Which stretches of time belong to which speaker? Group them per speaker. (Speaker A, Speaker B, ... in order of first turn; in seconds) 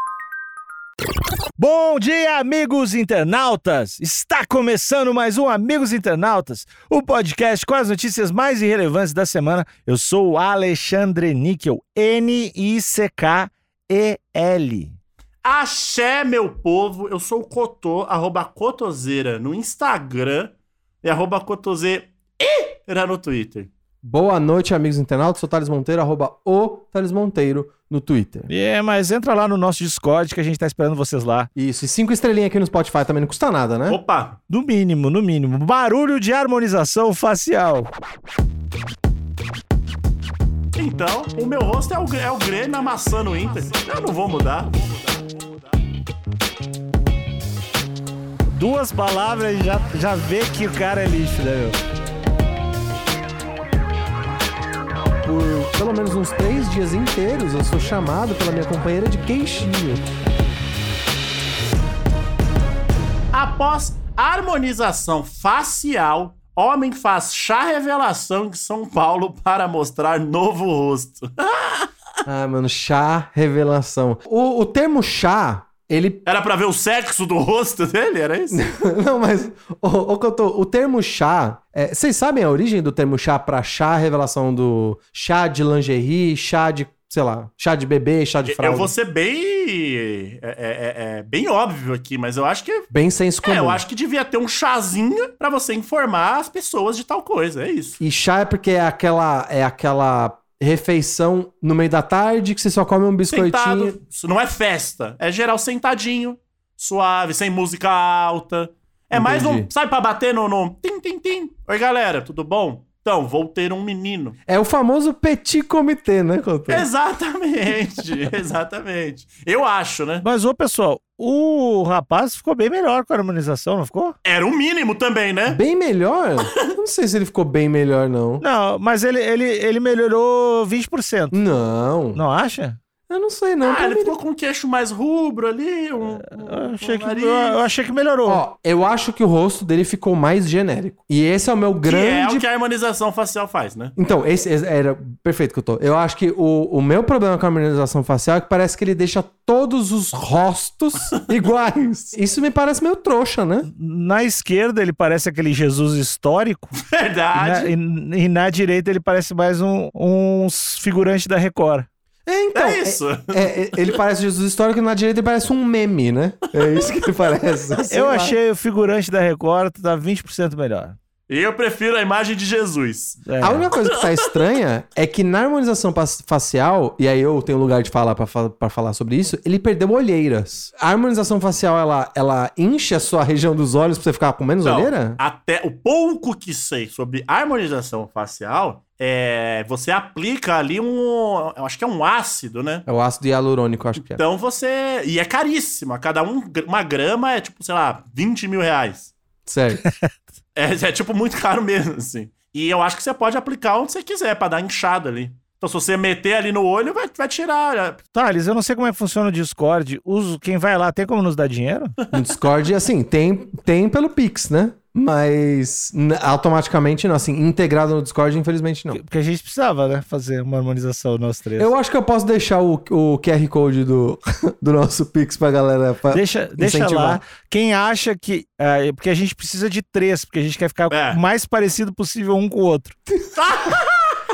Speaker A: 1.6-15.0, 28.5-31.5, 34.5-37.9, 48.5-51.8, 120.2-124.1, 128.4-131.4, 132.1-132.8, 136.2-138.4, 153.7-156.8, 157.3-161.9, 167.9-170.9, 173.2-173.7, 199.8-200.1, 208.1-212.0, 218.9-221.7, 226.1-233.0
Speaker B: 15.4-23.7, 33.9-34.4, 40.8-45.7, 63.3-71.9, 76.2-78.6, 88.5-92.9, 93.4-98.0, 103.3-114.4, 116.7-120.2, 124.2-125.6, 133.6-137.6, 141.8-143.9, 156.8-157.7, 162.5-164.0, 171.3-173.2, 173.8-174.2, 184.6-192.8, 194.0-199.1, 200.5-208.0, 230.9-231.2, 233.3-234.2
Speaker C: 24.0-28.5, 31.6-34.0, 55.2-60.1, 72.3-76.2, 78.5-88.9, 92.9-93.8, 98.0-104.0, 109.1-109.7, 114.5-116.9, 125.5-128.4, 131.3-132.2, 133.1-134.1, 138.2-142.4, 143.9-153.7, 162.2-168.3, 173.4-185.2, 192.9-194.2, 199.4-199.8, 212.1-219.0, 221.6-227.2